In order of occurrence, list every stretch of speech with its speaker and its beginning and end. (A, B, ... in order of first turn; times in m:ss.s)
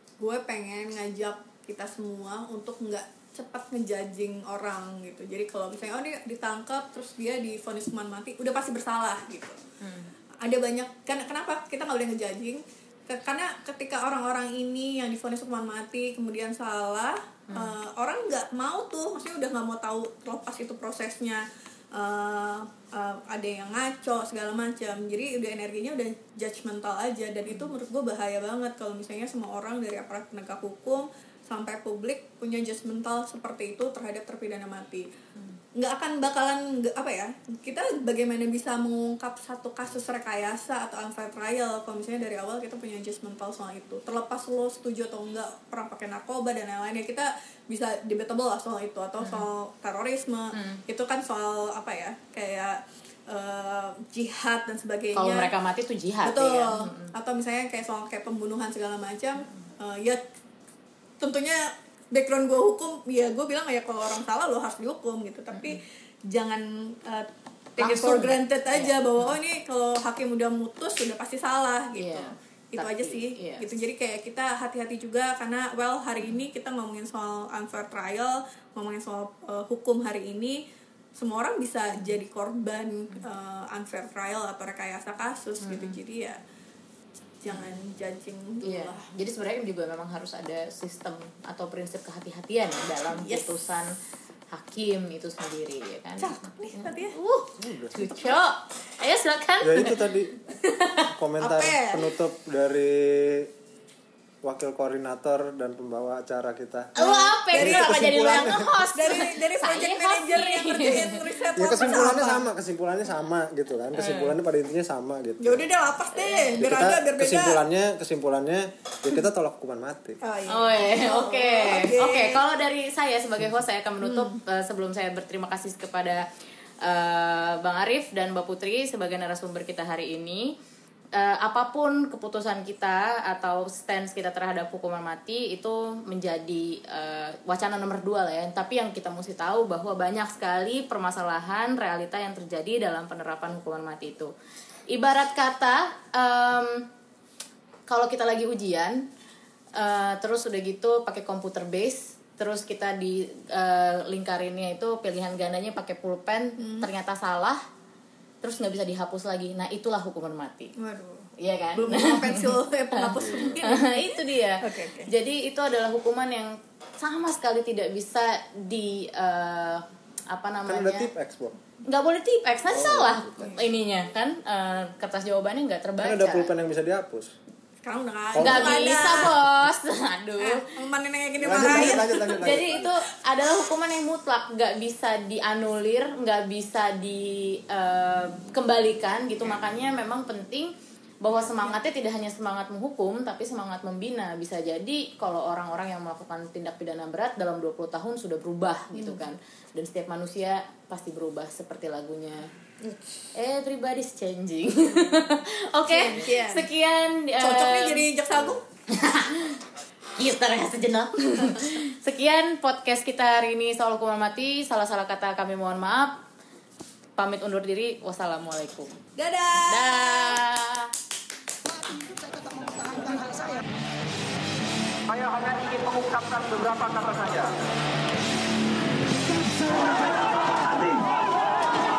0:00.2-0:09.6 A
0:09.8-0:10.1 B
0:10.4-0:35.0 A
0:35.7-0:55.5 A
0:49.2-0:49.5 B
0:50.5-0:50.8 B
0:55.1-0:57.1 B
0:56.2-1:00.2 A
1:01.2-1:20.6 A
1:05.5-1:05.8 B
1:07.8-1:09.3 B
1:12.0-1:13.7 B
1:21.2-1:26.4 A
1:25.6-1:26.0 B
1:27.4-1:29.0 A
1:28.6-1:33.9 B
1:33.1-1:33.7 A
1:34.5-1:41.1 B
1:36.2-1:37.1 A
1:37.6-1:37.9 C
1:38.1-1:38.4 A
1:39.6-1:40.4 C
1:41.1-1:43.5 C
1:41.4-1:42.1 A
1:44.4-1:46.9 C
1:47.0-1:51.4 B
1:47.0-1:52.4 A
1:47.5-1:48.7 C
1:51.6-1:55.7 C
1:54.0-1:54.3 B
1:55.4-1:57.6 A
1:56.1-1:56.6 B
1:56.6-2:00.2 C
2:00.2-2:02.4 A
2:00.5-2:06.2 B
2:04.0-2:04.4 A
2:06.8-2:10.5 B
2:11.1-2:24.3 B
2:24.9-2:26.8 B
2:27.9-2:29.1 B
2:29.8-2:37.6 B
2:36.6-2:36.9 A
2:38.4-2:40.7 B
2:40.8-2:44.1 A
2:41.4-2:43.0 B
2:43.1-2:43.6 C
2:43.6-2:51.1 B
2:44.6-2:45.1 A
2:50.6-2:51.6 C
2:51.9-2:56.5 B
2:52.7-2:53.5 C
2:56.0-2:57.3 C
2:57.8-2:59.3 A
2:58.3-2:59.3 C
2:58.4-3:00.6 B
3:00.4-3:02.6 A
3:01.4-3:02.9 C
3:01.6-3:22.5 B
3:18.9-3:19.2 A
3:23.3-3:28.0 B
3:25.9-3:26.7 A
3:27.4-3:28.6 A
3:28.9-3:29.6 B
3:30.2-3:36.2 B
3:37.2-3:38.9 B
3:39.2-3:40.4 A
3:39.7-3:40.9 B
3:41.6-3:43.6 D
3:45.1-3:47.5 E
3:49.6-3:51.1 E